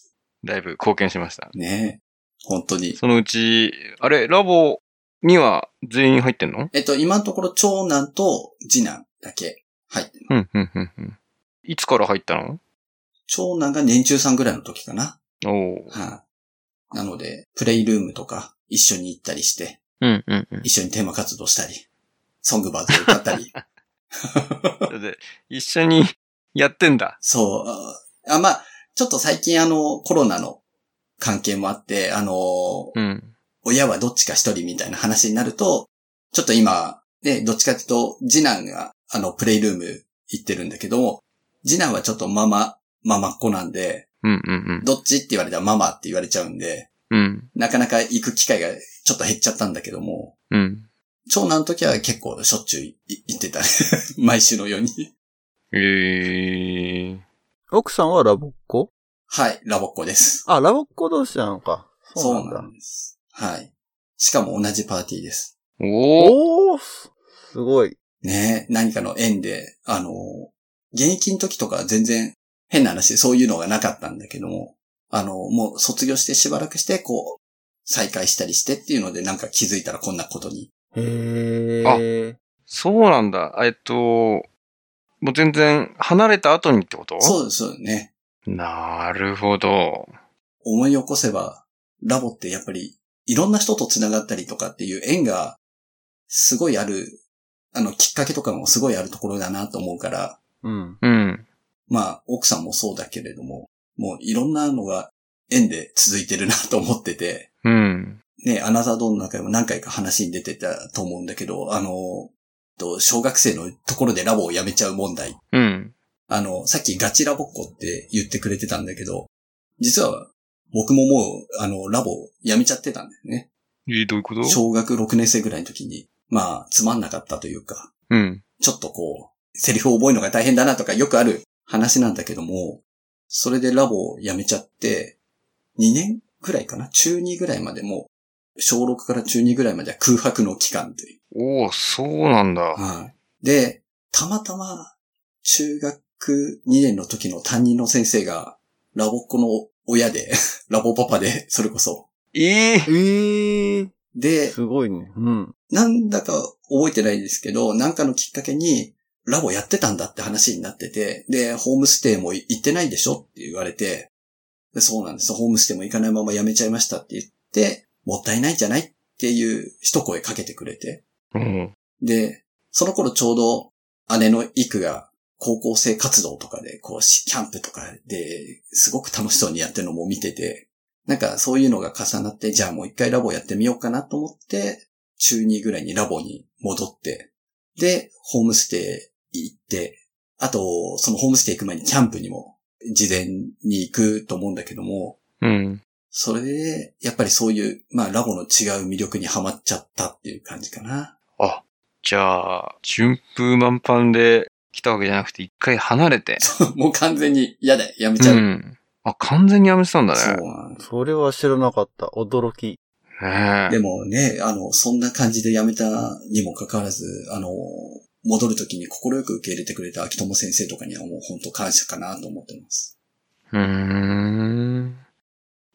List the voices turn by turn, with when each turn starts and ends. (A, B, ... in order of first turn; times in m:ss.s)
0:00.4-0:01.5 A
0:01.5-0:03.0 B
0:03.0-0:06.7 A
0:06.7-0:10.3 B
0:10.3-0:12.6 A
0:13.3-0:15.2 B
0:15.4-0:16.0 A
0:15.9-0:16.2 B
0:16.9-0:19.8 B
0:20.0-0:20.7 A
0:20.6-0:21.8 B
0:22.4-0:23.5 B
0:23.1-0:23.6 A
0:24.3-0:24.9 B
0:24.9-0:27.2 A
0:27.2-0:30.6 B
0:31.2-0:32.9 B
0:32.9-0:33.3 A
0:33.6-0:44.0 B
0:44.2-0:44.9 A
0:44.8-0:46.9 B
0:47.1-0:47.5 A
0:47.5-0:50.3 B
0:50.5-0:50.9 A
0:51.3-0:53.6 B
0:54.2-0:55.1 B
0:55.7-0:57.2 A
0:57.7-0:58.9 C
0:59.3-1:00.4 B
1:00.4-1:02.7 C
1:02.2-1:05.5 B
1:05.8-1:06.4 A
1:06.2-1:08.0 C
1:08.2-1:20.7 B
1:20.9-1:22.4 C
1:22.7-1:24.5 A
1:25.2-1:27.4 A
1:27.2-1:28.1 B
1:28.5-1:30.1 A
1:30.6-1:35.6 B
1:36.3-1:37.2 B
1:37.7-1:40.4 B
1:40.6-1:41.0 C
1:41.0-1:41.4 A
1:41.9-1:47.5 B
1:47.6-1:48.2 A
1:48.4-1:55.4 B
1:55.5-1:55.9 A
1:56.3-2:03.5 B
2:03.9-2:04.6 A
2:04.4-2:07.9 B
2:08.1-2:08.4 A
2:08.6-2:15.1 B
2:15.8-2:21.1 B
2:21.3-2:22.8 A
2:22.7-2:24.9 B
2:25.4-2:32.0 B
2:32.3-2:32.9 A
2:32.9-2:33.9 C
2:34.1-2:34.6 B
2:34.5-2:35.5 C
2:35.7-2:44.1 B
2:44.7-2:51.0 B
2:51.3-2:51.7 A
2:52.0-3:15.2 B
3:15.4-3:15.8 A
3:16.1-3:21.1 B
3:21.4-3:26.4 A
3:26.4-3:28.4 B
3:28.2-3:30.4 A
3:30.1-3:30.8 B
3:30.8-3:32.8 C
3:33.2-3:33.8 A
3:33.7-3:42.9 B
3:43.5-3:45.0 A